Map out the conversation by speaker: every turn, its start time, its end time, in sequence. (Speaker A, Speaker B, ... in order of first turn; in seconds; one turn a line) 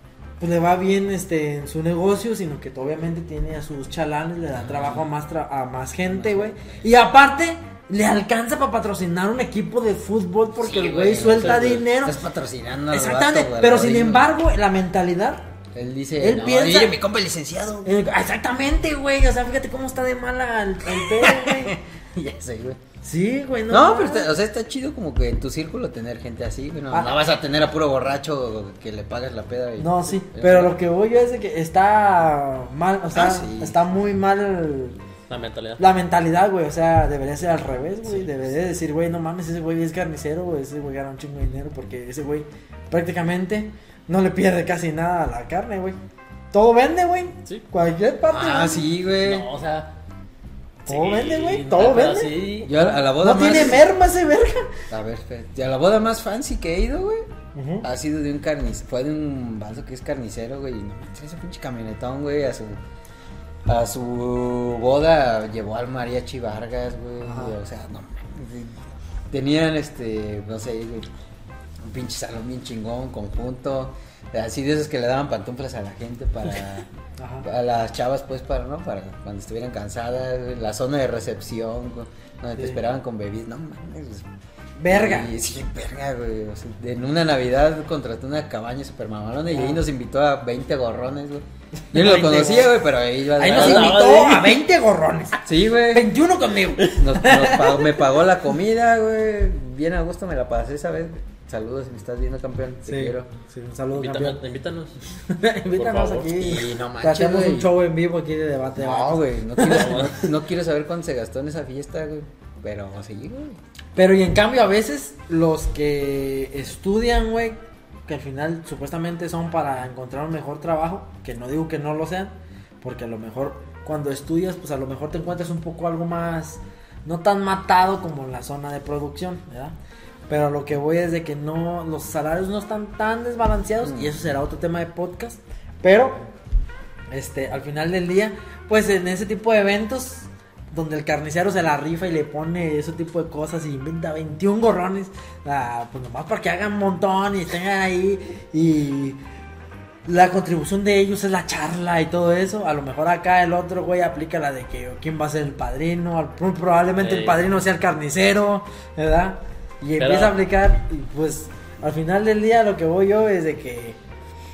Speaker A: 0.4-12.2
Speaker B: 4.6-5.1
Speaker B: 6.1-6.7
Speaker B: 10.6-14.3
Speaker C: 11.1-11.9
Speaker A: 12.9-15.5
Speaker B: 15.8-17.9
Speaker A: 16.2-17.0
Speaker A: 17.8-21.8
Speaker B: 20.9-22.8
Speaker A: 23.0-24.3
Speaker B: 23.7-30.8
Speaker A: 29.8-35.0
Speaker B: 33.1-33.8
Speaker C: 35.3-35.9
Speaker A: 35.8-46.0
Speaker C: 38.1-38.4
Speaker A: 46.5-48.9
Speaker B: 48.3-49.5
Speaker C: 49.1-50.0
Speaker C: 50.9-52.8
Speaker A: 50.9-54.7
Speaker B: 52.6-53.9
Speaker B: 54.9-57.3
Speaker A: 57.5-57.9
Speaker B: 57.8-62.8
Speaker B: 63.7-71.1
Speaker A: 67.2-67.5
Speaker B: 71.8-76.9
Speaker A: 77.2-77.5
Speaker B: 77.4-84.3
Speaker A: 84.8-85.3
Speaker B: 84.9-94.0
Speaker A: 89.5-89.8
Speaker A: 91.9-92.8
Speaker A: 93.3-98.0
Speaker C: 93.4-94.6
Speaker B: 95.5-96.1
Speaker B: 96.9-103.3
Speaker A: 102.9-104.4
Speaker C: 103.9-105.0
Speaker A: 105.2-110.1
Speaker C: 105.8-106.5
Speaker B: 106.4-107.7
Speaker B: 108.8-113.6
Speaker C: 109.6-110.2
Speaker A: 114.0-129.8
Speaker A: 130.3-136.2
Speaker B: 133.8-134.1
Speaker A: 137.1-149.2
Speaker A: 150.1-164.0
Speaker C: 157.0-157.4
Speaker C: 160.0-160.4